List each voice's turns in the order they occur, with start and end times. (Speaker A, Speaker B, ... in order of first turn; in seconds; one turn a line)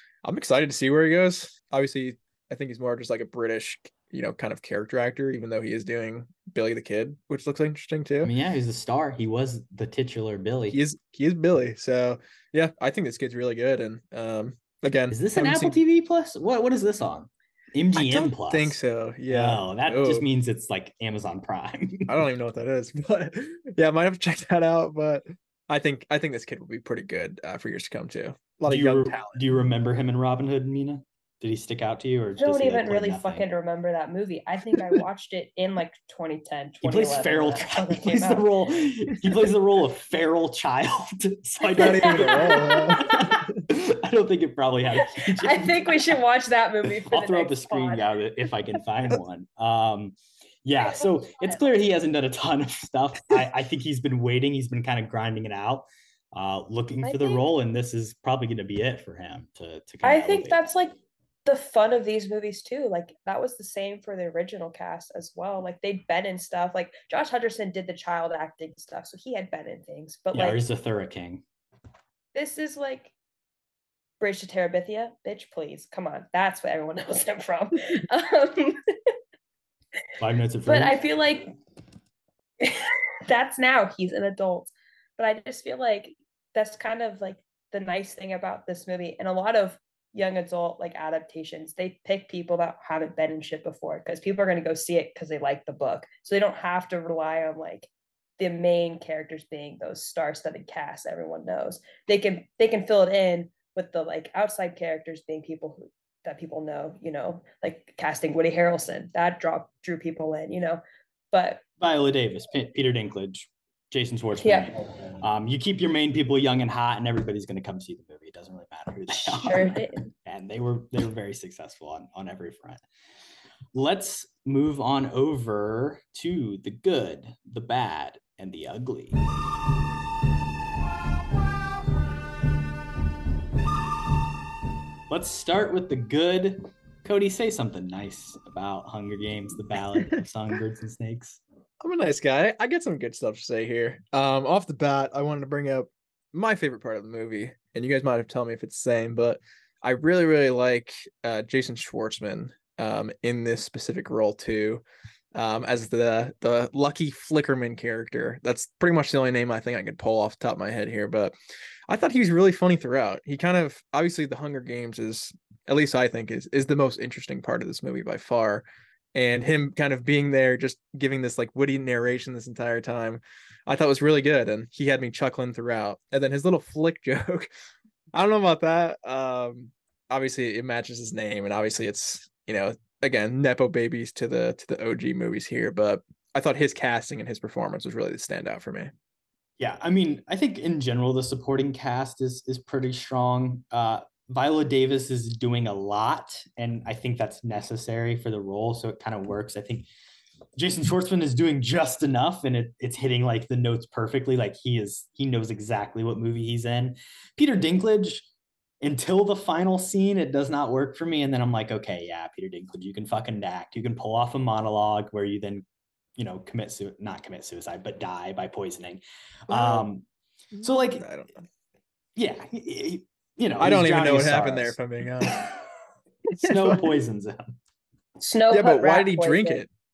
Speaker A: 0.2-8.3
Speaker B: 8.2-10.8
Speaker A: 10.7-15.8
Speaker B: 15.1-18.8
Speaker A: 17.9-20.3
Speaker B: 19.3-22.1
Speaker A: 22.1-29.5
Speaker B: 28.7-33.5
Speaker C: 32.4-38.5
Speaker B: 36.8-46.1
Speaker A: 41.8-43.6
Speaker C: 41.8-43.4
Speaker C: 45.2-48.0
Speaker B: 47.1-60.6
Speaker C: 50.8-51.6
Speaker C: 57.0-57.4
Speaker C: 60.0-60.9
Speaker C: 61.5-70.6
Speaker B: 70.3-71.4
Speaker C: 72.3-73.1
Speaker C: 74.2-78.9
Speaker B: 80.2-81.0
Speaker C: 80.7-81.5
Speaker C: 82.6-110.8
Speaker C: 111.3-111.6
Speaker B: 111.8-122.8
Speaker C: 114.4-114.7
Speaker C: 119.1-120.1
Speaker B: 123.7-129.2
Speaker B: 135.1-141.4
Speaker A: 141.8-154.8
Speaker A: 155.3-161.3
Speaker A: 161.9-177.5
Speaker A: 178.1-188.9
Speaker B: 189.6-199.9
Speaker B: 200.6-208.3
Speaker B: 208.8-215.7
Speaker B: 216.2-220.0
Speaker A: 219.5-219.9
Speaker A: 220.5-221.4
Speaker B: 220.6-221.1
Speaker B: 222.2-225.6
Speaker A: 223.6-225.4
Speaker A: 226.3-226.9
Speaker B: 226.4-227.6
Speaker C: 228.2-229.6
Speaker A: 228.5-229.7